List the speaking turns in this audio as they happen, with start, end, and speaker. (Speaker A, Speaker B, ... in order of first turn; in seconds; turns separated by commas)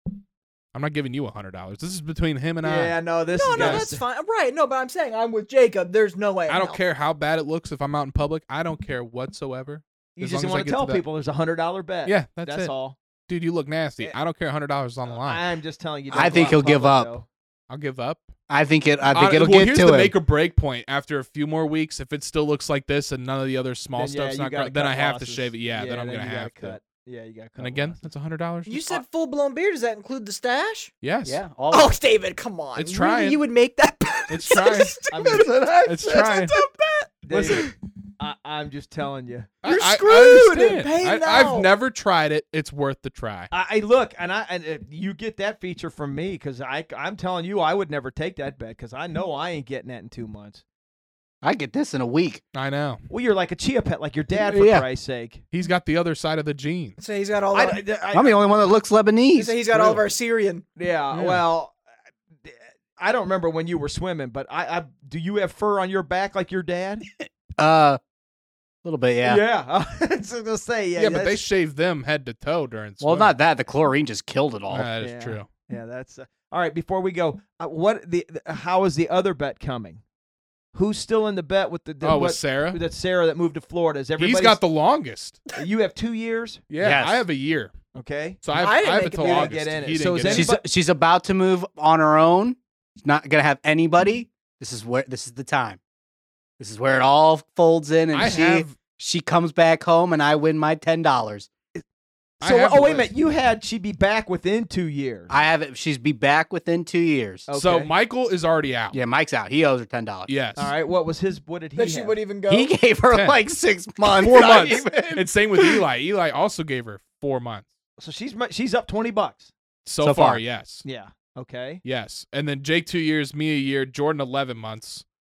Speaker A: 0.7-3.9, Speaker B: 2.6-4.0, Speaker C: 3.3-6.8, Speaker A: 6.5-11.0, Speaker B: 10.2-13.0, Speaker A: 12.1-12.7, Speaker A: 13.3-15.4, Speaker B: 15.1-17.3, Speaker D: 16.1-17.1, Speaker A: 16.2-16.6, Speaker A: 17.7-18.3, Speaker D: 18.5-20.1, Speaker A: 19.1-26.8, Speaker B: 23.9-28.0, Speaker A: 27.6-29.0, Speaker C: 28.7-30.9, Speaker A: 31.0-31.4, Speaker D: 31.2-31.9, Speaker C: 31.7-37.7, Speaker A: 32.7-33.4, Speaker A: 34.3-35.0, Speaker B: 35.1-35.5, Speaker A: 35.9-36.6, Speaker B: 37.2-39.5, Speaker A: 39.6-43.5, Speaker C: 39.6-41.7, Speaker B: 43.5-50.6, Speaker D: 51.4-52.4, Speaker A: 52.5-53.0, Speaker B: 53.1-55.4, Speaker D: 54.3-54.9, Speaker A: 55.5-57.0, Speaker C: 57.0-57.8, Speaker B: 57.5-58.4, Speaker D: 58.1-60.0, Speaker C: 59.3-60.6, Speaker B: 60.8-61.8, Speaker A: 61.1-61.4, Speaker B: 62.4-67.0, Speaker D: 67.2-68.0, Speaker D: 68.8-69.4, Speaker B: 69.2-71.4, Speaker A: 71.0-73.3, Speaker D: 73.0-74.9, Speaker A: 74.7-75.5, Speaker B: 75.0-80.0, Speaker B: 80.7-84.6, Speaker A: 82.0-82.8, Speaker A: 84.2-85.4, Speaker B: 85.6-86.6, Speaker A: 86.7-87.7, Speaker D: 86.8-87.2, Speaker B: 87.9-90.6, Speaker A: 88.4-90.5, Speaker C: 88.5-89.5, Speaker D: 90.2-95.8, Speaker D: 96.6-101.5, Speaker A: 98.1-98.7, Speaker A: 102.4-103.1, Speaker B: 102.4-105.3, Speaker D: 105.3-107.5, Speaker B: 107.5-107.9, Speaker A: 107.5-109.0, Speaker D: 108.9-110.3, Speaker A: 110.3-110.7, Speaker B: 110.5-112.2, Speaker C: 111.8-112.7, Speaker D: 112.5-115.8, Speaker A: 113.1-113.4, Speaker A: 114.2-117.7, Speaker B: 118.0-119.5, Speaker A: 119.8-120.8, Speaker D: 120.0-120.4, Speaker B: 120.8-121.8, Speaker A: 121.8-125.0